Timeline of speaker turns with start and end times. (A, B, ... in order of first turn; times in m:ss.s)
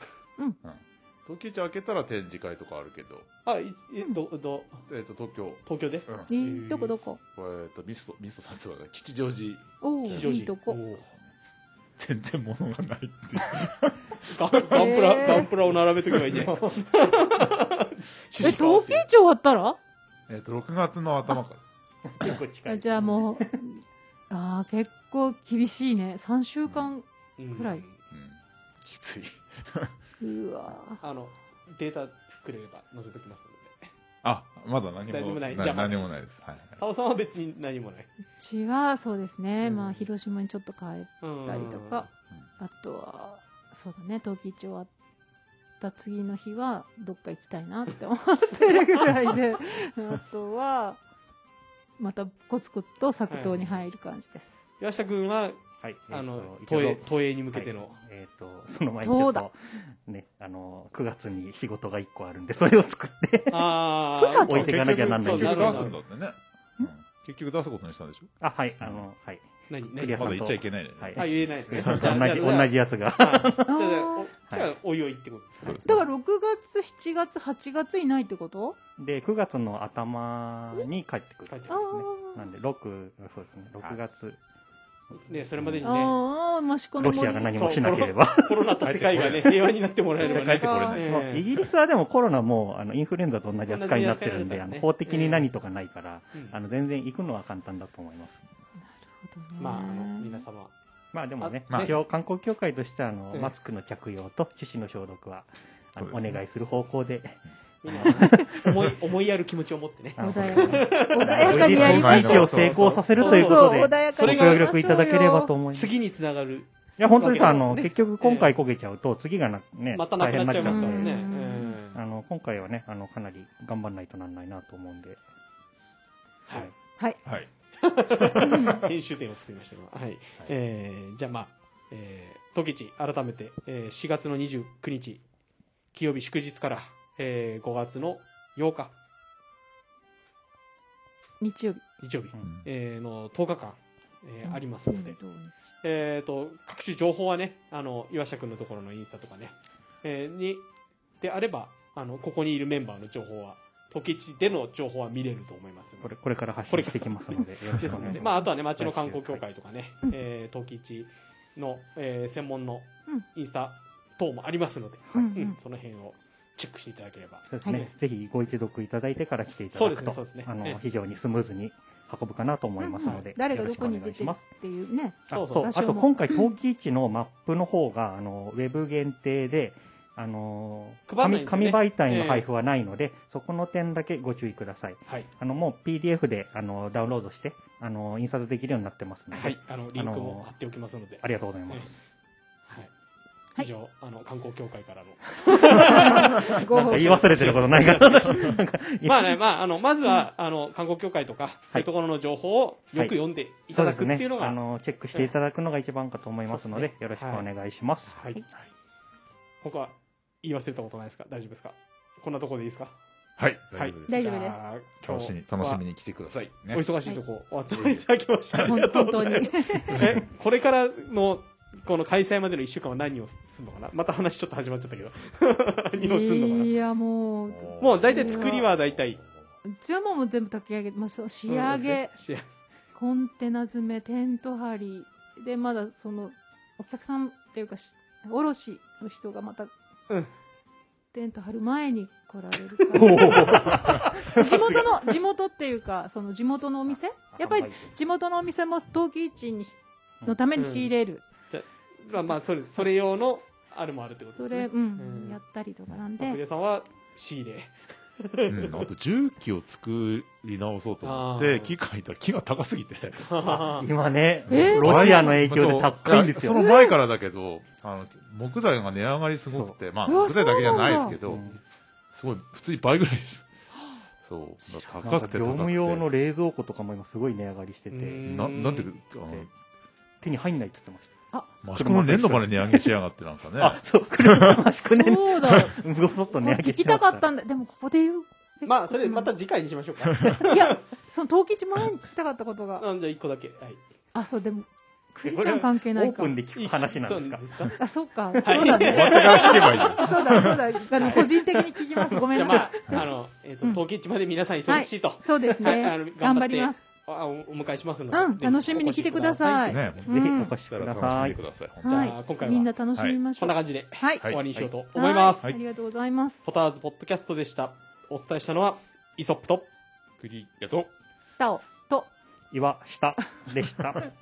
0:00.6-0:03.3 A
0:03.4-0:04.8 B
0:04.9-0:06.3 A
0:05.6-0:06.9 B
0:06.3-0:07.2 C
0:07.3-0:10.1 A
0:09.8-0:10.8 C
0:10.1-0:11.1 B
0:12.0-0:14.2 A
0:14.3-0:19.1 B
0:14.7-0:15.5 C
0:16.1-0:16.6 A
0:18.4-0:19.8 C
0:20.3-0:21.6 A
0:22.0-0:23.5 D
0:22.2-0:27.8 C
0:27.4-0:28.0 B
0:28.1-0:29.9 A
0:30.2-0:31.0 C
0:31.0-0:33.9 B
0:34.2-0:36.8 A
0:35.1-0:36.1 B
0:36.8-0:38.1 B
0:38.4-0:42.1 C
0:39.6-0:40.0 B
0:41.2-0:42.1 B
0:42.6-0:44.9 C
0:45.8-0:51.0 C
0:52.0-0:54.6 C
0:53.3-0:53.8 B
0:54.8-0:55.6 B
0:55.8-1:03.8 D
0:56.1-0:58.0 B
0:59.0-0:59.4 C
1:03.5-1:05.9 B
1:04.2-1:04.9 C
1:04.4-1:05.9 D
1:04.5-1:08.3 A
1:08.4-1:14.7 D
1:09.7-1:10.4 B
1:10.2-1:12.1 A
1:11.2-1:15.8 B
1:13.7-1:14.3 C
1:15.6-1:16.0 A
1:15.8-1:18.8 C
1:19.0-1:24.4 D
1:21.5-1:21.8 B
1:21.7-1:22.5 C
1:25.1-1:26.2 B
1:25.8-1:27.8 C
1:27.0-1:28.7 D
1:27.5-1:31.5 B
1:28.8-1:29.6 A
1:30.1-1:31.0 A
1:30.2-1:31.1 C
1:30.9-1:38.4 D
1:33.7-1:35.5 B
1:39.0-1:40.4 C
1:39.6-1:40.7 B
1:41.1-1:48.8 D
1:41.4-1:41.9 B
1:41.7-1:42.0 A
1:46.0-1:46.4 A
1:47.8-1:54.6 B
1:50.2-1:55.9 D
1:50.2-1:53.0 A
1:50.5-1:52.5 C
1:53.2-1:55.5 C
1:55.7-1:58.5 B
1:57.0-2:01.3 D
1:57.0-1:57.7 C
1:59.9-2:02.0 B
2:00.6-2:01.8 C
2:01.9-2:05.2 D
2:07.7-2:15.2 B
2:08.1-2:08.7 A
2:08.4-2:08.8 C
2:15.9-2:18.9 B
2:21.4-2:21.8 C
2:22.0-2:25.2 B
2:22.4-2:22.6 A
2:24.4-2:25.5 C
2:25.8-2:30.7 B
2:31.2-2:36.1 B
2:36.0-2:39.4 D
2:36.7-2:47.9 B
2:45.1-2:45.6 C
2:47.5-2:54.4 D
2:49.7-2:50.8 B
2:52.8-2:56.5 C
2:53.0-2:53.3 B
2:55.3-3:10.5 D
2:55.3-2:55.7 B
3:01.1-3:02.5 B
3:09.3-3:11.9 B
3:11.2-3:12.0 D
3:13.6-3:24.6 B
3:15.4-3:17.7 C
3:15.7-3:19.4 D
3:23.7-3:28.2 D
3:26.4-3:27.4 B
3:28.1-3:28.4 B
3:29.6-3:32.9 B
3:33.4-3:34.2 A
3:33.8-3:35.8 B
3:34.1-3:34.6 C
3:35.0-3:36.8 A
3:36.7-3:46.7 B
3:37.7-3:38.0 A
3:38.6-3:40.1 C
3:39.9-3:40.2 A
3:46.0-3:48.7 C
3:47.5-3:49.0 A
3:47.8-3:49.2 B
3:49.6-3:52.1 C
3:51.5-3:52.4 B
3:52.9-3:59.7 C
4:01.1-4:11.2 C
4:02.8-4:04.5 B
4:02.9-4:04.9 D
4:07.3-4:07.9 D
4:10.5-4:10.9 B
4:11.5-4:15.4 B
4:14.4-4:16.4 C
4:16.2-4:18.8 B
4:18.5-4:23.5 A
4:21.0-4:21.8 B
4:23.2-4:23.9 B
4:23.5-4:26.6 D
4:24.5-4:25.4 C
4:24.5-4:31.5 A
4:26.5-4:27.0 C
4:29.5-4:29.7 D
4:30.0-4:31.2 C
4:31.1-4:31.5 D
4:32.1-4:33.5 A
4:34.2-4:36.0 A
4:35.0-4:38.2 D
4:37.9-4:38.9 B
4:38.2-4:39.5 A
4:39.1-4:39.5 D
4:40.2-4:42.9 D
4:41.6-4:44.6 A
4:43.6-4:47.2 D
4:44.8-4:49.3 C
4:48.6-4:50.8 B
4:50.4-4:52.8 C
4:52.8-4:53.8 B
4:54.1-4:56.3 C
4:55.2-4:57.7 D
4:56.5-4:57.8 B
4:57.8-5:03.0 C
4:58.4-5:00.2 B
4:58.7-5:00.7 A
5:00.9-5:01.3 B
5:02.1-5:02.6 D
5:02.3-5:10.0 B
5:04.7-5:06.8 C
5:08.1-5:10.5 C
5:09.6-5:12.2 A
5:10.1-5:11.4 D
5:11.8-5:14.3 C
5:11.9-5:12.7 B
5:13.4-5:15.4 B
5:14.9-5:16.4 C
5:16.4-5:19.7 B
5:20.2-5:20.9 A
5:21.4-5:22.1 C
5:22.5-5:24.1 D